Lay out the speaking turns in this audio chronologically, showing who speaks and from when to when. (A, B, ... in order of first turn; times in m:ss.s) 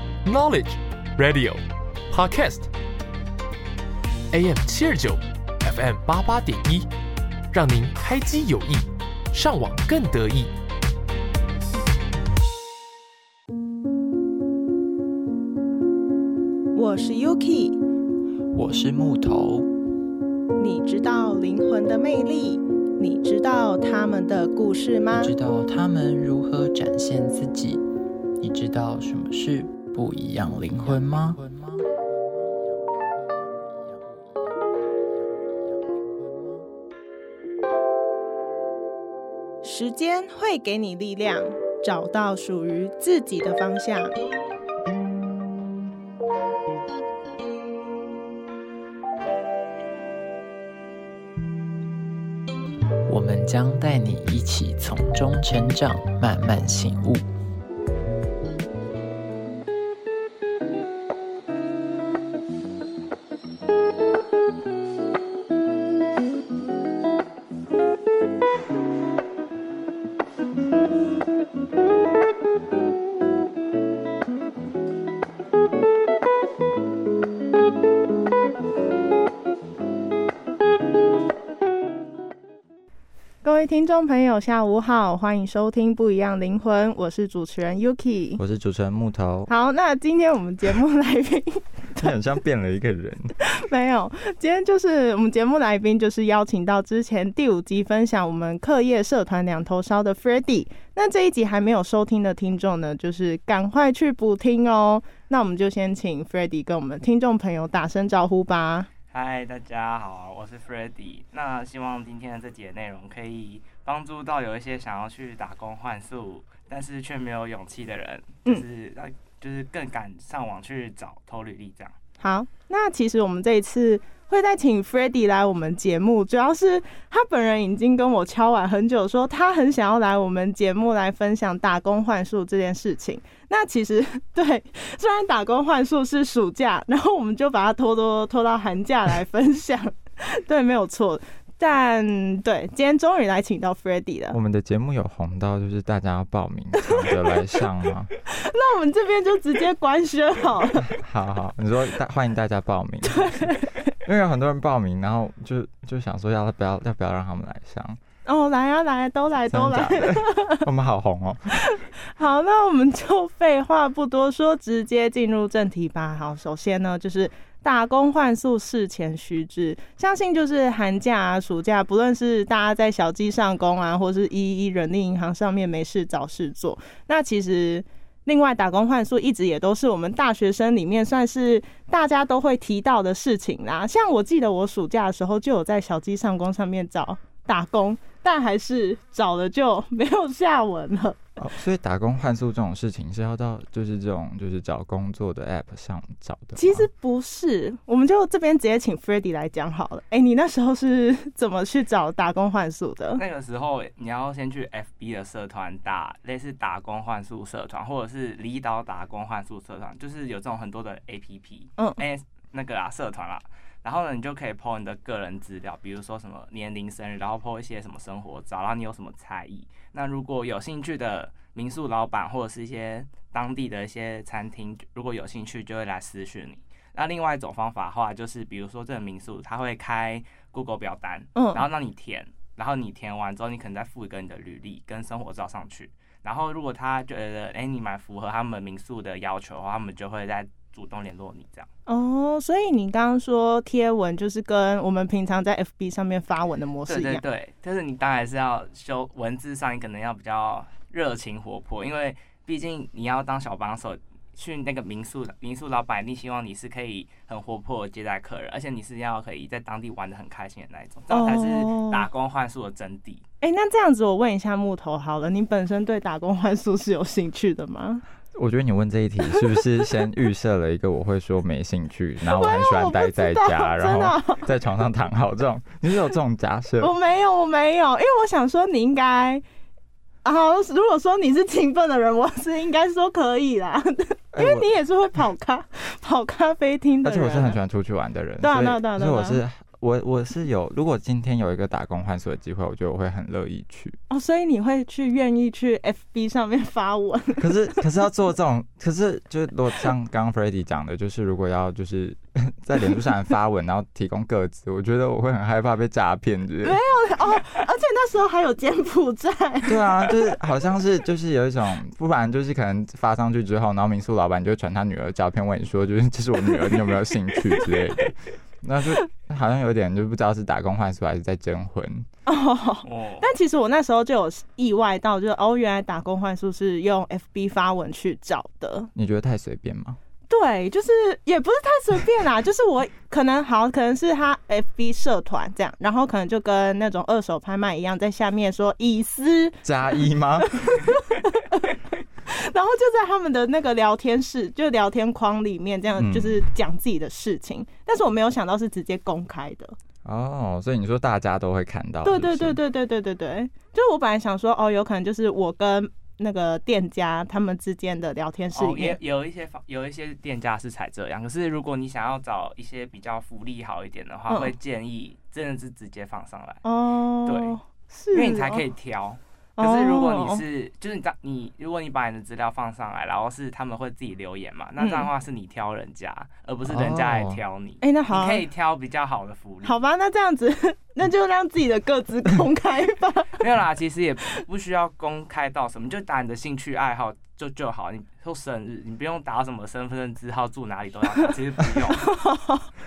0:00.2-0:02.7 A
0:04.3-0:06.9 A
0:07.5-0:10.5 A
0:16.7-0:17.8 B
0:18.5-0:19.6 C
0:20.6-0:25.3 B
0:25.1-0:27.8 C
0:28.4-0:31.8 C
0:39.6-0:44.1 B
0:53.0-0:57.2 C
1:23.4-1:28.4 B
1:28.4-1:29.5 D
1:29.5-1:32.1 B
1:32.0-1:33.3 D
1:33.4-1:48.9 B
1:49.1-2:01.9 E
2:02.2-2:24.4 B
2:24.3-2:28.1 D
2:28.3-2:31.0 B
2:30.9-2:33.5 D
2:33.1-2:33.7 B
2:34.0-2:38.0 D
2:38.2-2:40.6 B
2:39.5-2:41.6 D
2:41.6-3:11.2 B
3:11.4-3:16.9 D
3:16.6-3:23.2 B
3:23.2-4:01.7 E
3:51.3-3:51.6 B
4:01.9-4:07.2 B
4:06.9-4:23.2 E
4:21.1-4:22.1 B
4:23.4-4:28.0 B
4:28.3-4:36.9 D
4:32.3-4:34.5 B
4:36.8-4:39.4 B
4:40.2-4:47.6 B
4:44.3-4:44.6 D
4:47.0-4:54.0 D
4:48.4-4:49.4 B
4:54.1-4:57.8 B
4:57.4-5:06.8 D
5:06.6-5:10.1 B
5:09.6-5:22.1 D
5:17.5-5:17.7 B
5:22.2-5:28.9 B
5:22.8-5:23.2 E
5:28.9-5:30.0 D
5:30.3-5:49.7 B
5:39.6-5:40.8 D
5:46.0-5:46.5 D
5:50.0-5:52.6 D
5:52.0-5:59.0 B
5:58.5-6:06.6 E
6:04.3-6:04.5 B
6:06.6-6:08.6 B
6:07.2-6:07.6 E
6:08.1-6:19.8 E
6:09.6-6:10.4 B
6:14.8-6:15.1 B
6:16.6-6:17.4 D
6:17.8-6:18.4 B
6:19.6-6:23.4 B
6:23.4-6:32.0 E
6:31.9-6:32.7 B